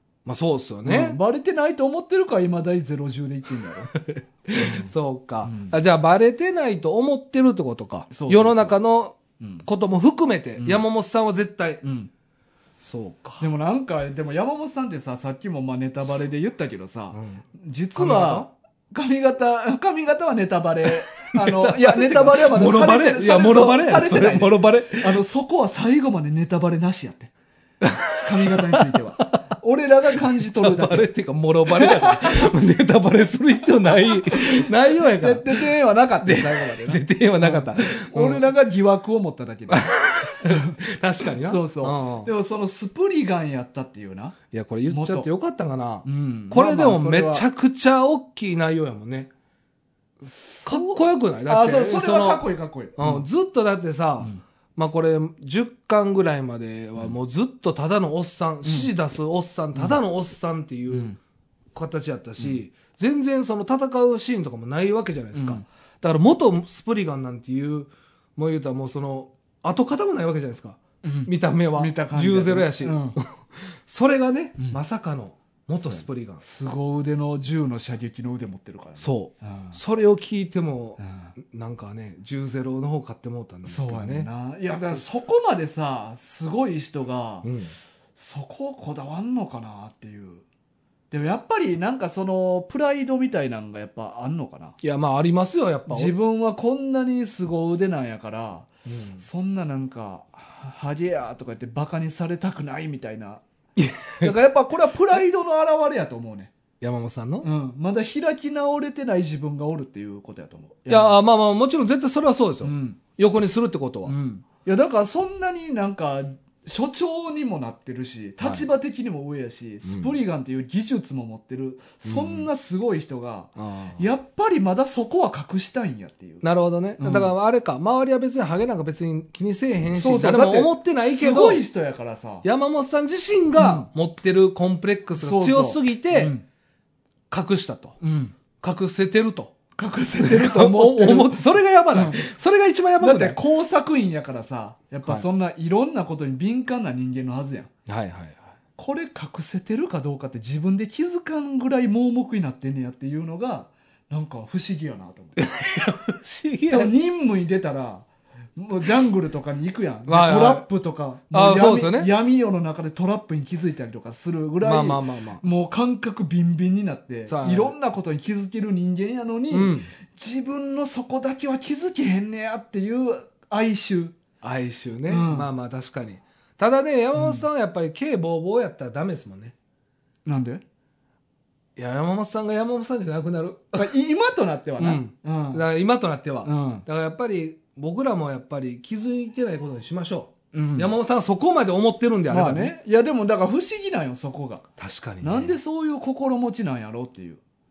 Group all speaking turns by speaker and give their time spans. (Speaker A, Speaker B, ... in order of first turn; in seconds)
Speaker A: 0.2-1.2, 3.9-11.8, 12.8-13.4, 17.1-17.4, 17.9-18.5, 21.2-25.2, 27.8-29.4, 30.2-35.7, 36.2-38.5, 39.7-42.3, 44.5-49.3, 50.6-52.4, 53.0-61.1, 61.7-76.4, 79.0-85.0, 87.4-87.7, 94.8-96.1, 98.8-99.2, 103.8-104.3, 106.8-107.5, 110.9-114.1, 118.4-118.7, 119.8-120.2, 122.0-122.5, 123.5-124.0, 126.4-131.6, 132.4-136.3, 137.3-138.0, 138.6-139.5, 140.2-143.4, 147.9-148.4, 155.4-156.9, 160.1-160.7, 161.3-162.1, 164.6-165.4, 167.3-167.7, 169.5-169.9, 174.4-179.5, 181.8-183.9, 184.8-192.7, 194.8-195.6
Speaker B: 0.8-3.9, 4.5-4.9, 5.4-5.8, 8.1-8.8, 9.4-9.7, 10.6-10.8, 11.8-12.1, 13.4-27.3, 28.2-31.1, 31.7-32.5, 34.0-39.9, 40.4-40.8, 41.4-44.4, 44.9-45.3, 46.0-47.4, 50.2-53.2, 58.6-58.9, 60.9-61.2, 65.3-65.6, 71.0-73.2, 75.8-79.8, 81.0-81.3, 83.6-87.5, 88.2-90.4, 91.1-94.8, 95.9-103.4, 104.2-106.5, 107.4-111.2, 112.6-113.0, 114.0-126.4, 127.0-127.3, 129.9-132.4, 133.6-133.9, 135.2-136.4, 138.0-138.3, 139.8-142.2, 143.0-147.7, 148.8-155.4, 156.7-174.1, 175.1-175.5, 177.2-177.4, 180.2-180.6, 183.8-185.6, 186.4-186.8, 190.5-190.9, 192.3-194.7, 195.2-197.4